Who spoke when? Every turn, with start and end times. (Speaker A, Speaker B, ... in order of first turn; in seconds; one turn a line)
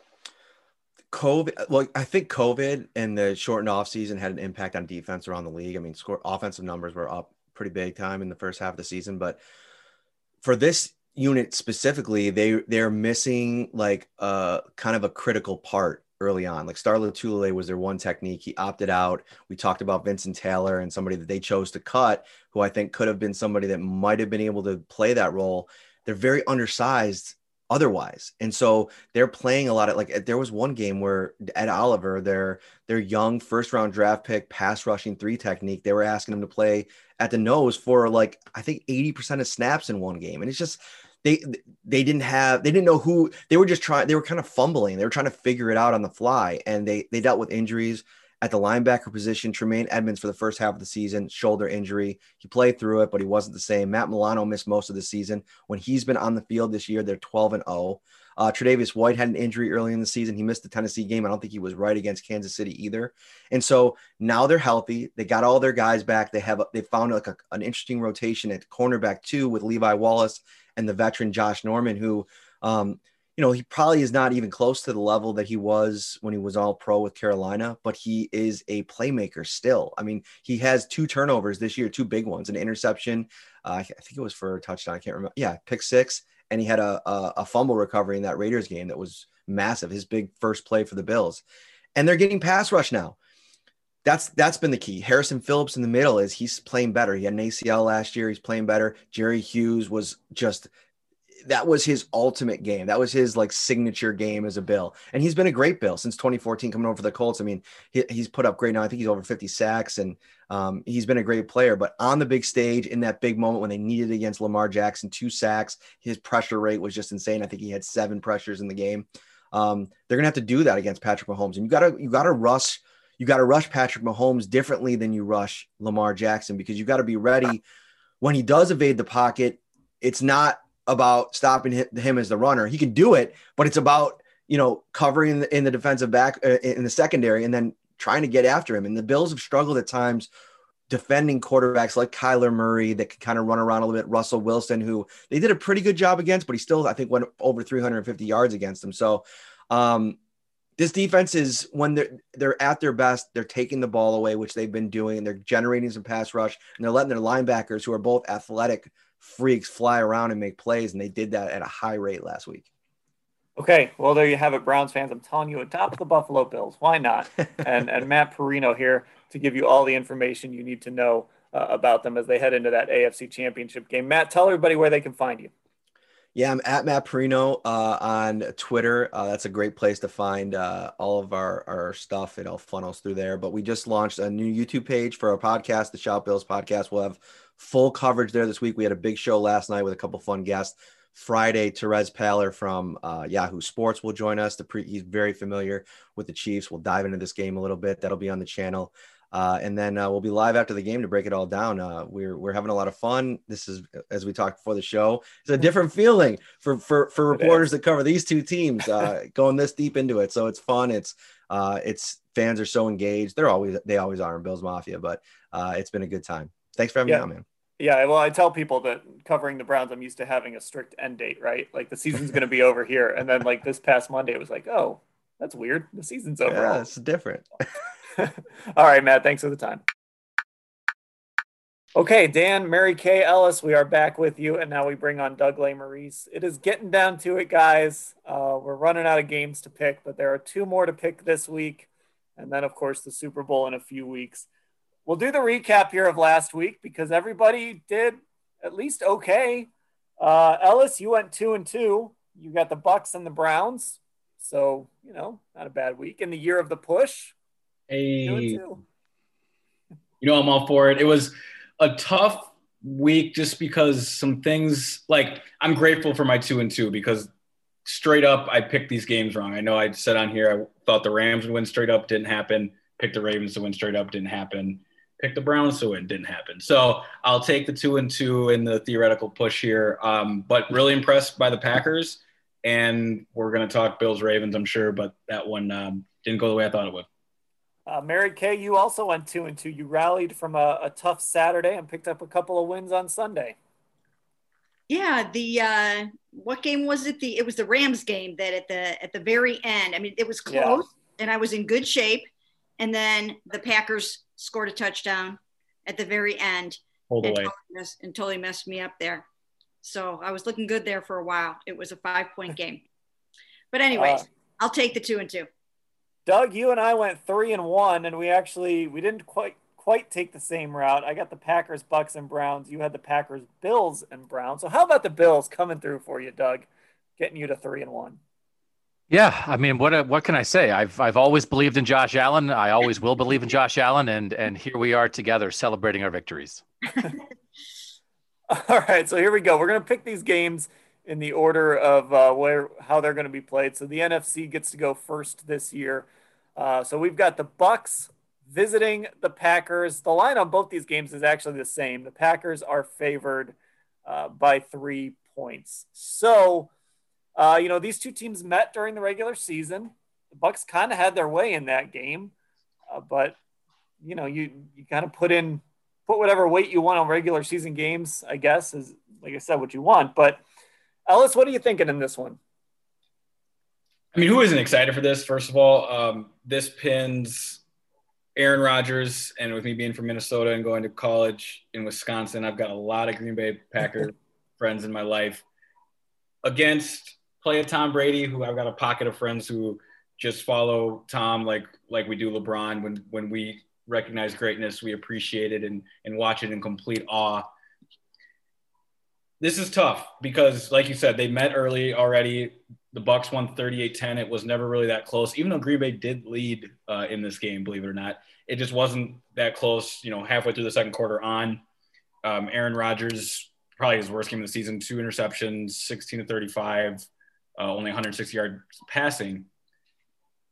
Speaker A: 1.1-9.4
Speaker A: 10.4-91.4
Speaker A: 91.9-93.2
Speaker A: 94.0-100.7
Speaker A: 101.5-127.6
Speaker A: 128.2-140.3
Speaker A: 140.9-150.2
Speaker A: 150.8-162.7
Speaker B: 163.6-175.5
Speaker A: 176.3-217.4
Speaker B: 207.3-207.6
Speaker B: 217.8-226.8
Speaker A: 226.5-227.4
Speaker B: 228.2-229.8
Speaker B: 231.9-244.4
Speaker B: 245.1-257.3
Speaker C: 257.9-258.6
Speaker B: 258.2-258.8
Speaker C: 260.2-267.3
Speaker C: 267.9-287.1
Speaker B: 287.9-293.6
Speaker D: 294.9-302.3
Speaker B: 300.5-300.8
Speaker D: 302.8-309.2
Speaker C: 307.1-307.5
Speaker D: 309.8-312.8
Speaker D: 313.7-315.5
Speaker B: 313.9-314.3
Speaker B: 316.2-328.2
Speaker E: 329.1-336.6
Speaker B: 338.5-353.5
Speaker B: 354.1-356.7
Speaker B: 357.4-362.3
Speaker B: 362.9-363.4
Speaker B: 364.0-370.4
Speaker B: 371.1-372.4
Speaker C: 374.1-377.6
Speaker C: 378.4-385.4
Speaker C: 386.4-397.5
Speaker C: 399.4-411.6
Speaker C: 412.2-419.5